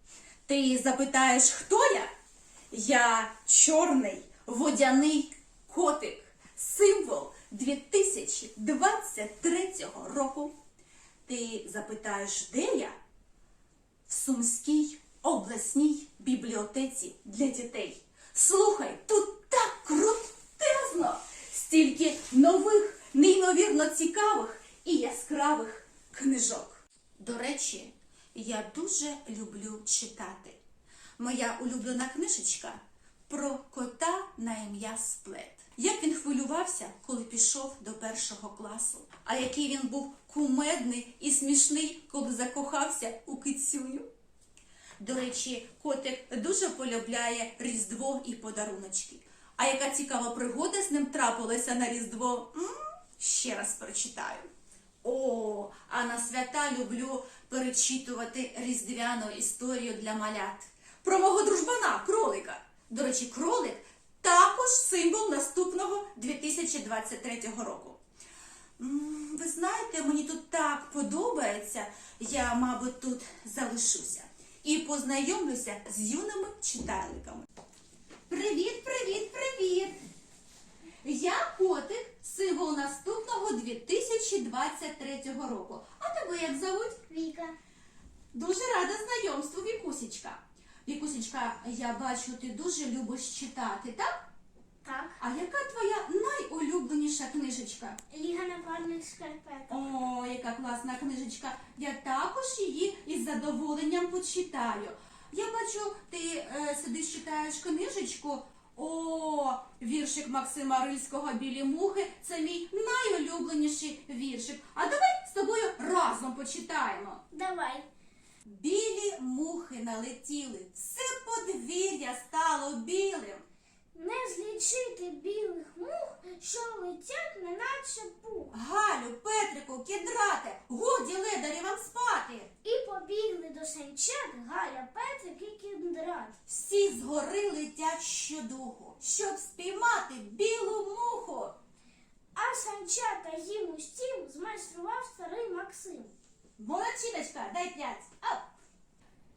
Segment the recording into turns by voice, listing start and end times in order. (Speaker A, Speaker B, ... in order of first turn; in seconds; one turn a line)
Speaker A: 0.5-2.1
Speaker A: 2.7-10.5
Speaker A: 11.3-13.0
Speaker A: 14.1-30.6
Speaker A: 31.2-44.1
Speaker A: 45.0-54.5
Speaker A: 55.0-68.0
Speaker A: 68.8-77.5
Speaker A: 78.3-80.0
Speaker A: 81.0-87.0
Speaker B: 87.1-87.5
Speaker A: 88.3-94.2
Speaker B: 94.8-95.2
Speaker A: 95.2-98.0
Speaker B: 98.1-99.9
Speaker A: 99.7-117.2
Speaker B: 117.3-117.9
Speaker A: 118.4-123.4
Speaker B: 123.9-128.6
Speaker A: 128.5-132.5
Speaker B: 132.6-136.4
Speaker A: 136.5-141.6
Speaker B: 142.3-146.1
Speaker A: 146.6-148.5